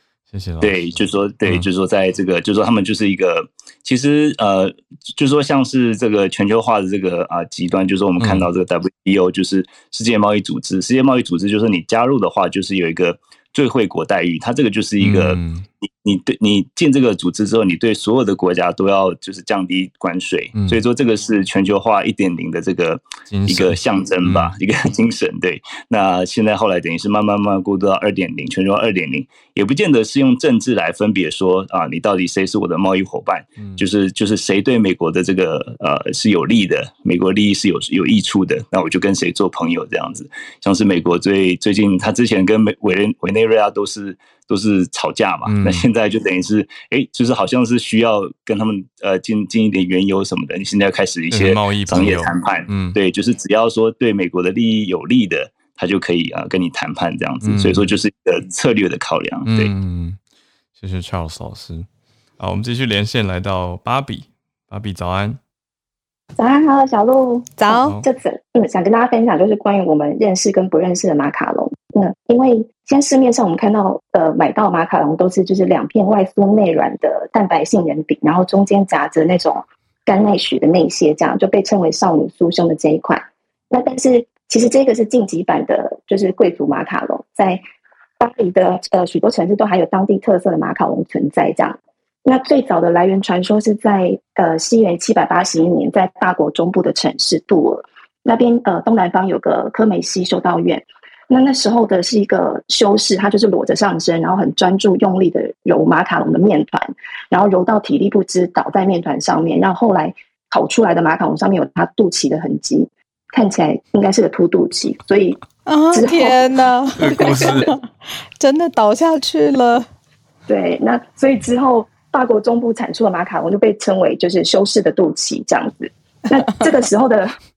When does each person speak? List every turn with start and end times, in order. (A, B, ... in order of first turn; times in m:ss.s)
0:00.3-0:01.6 A
0:00.6-0:59.7 B
0:08.2-0:08.5 A
0:15.0-0:15.7 A
0:20.5-0:20.8 A
0:23.3-0:24.5 A
0:33.6-0:33.8 A
0:45.4-0:45.9 A
0:51.3-0:53.0 A
0:57.4-0:57.9 A
0:59.4-1:00.2 A
1:00.8-1:01.9 A
1:02.4-1:05.4 A
1:06.4-1:27.6 C
1:07.6-1:08.0 D
1:28.2-1:55.4 C
1:55.6-1:57.8 D
1:55.9-1:56.4 C
1:57.0-1:57.7 A
1:58.4-1:59.9 D
2:00.5-2:07.4 C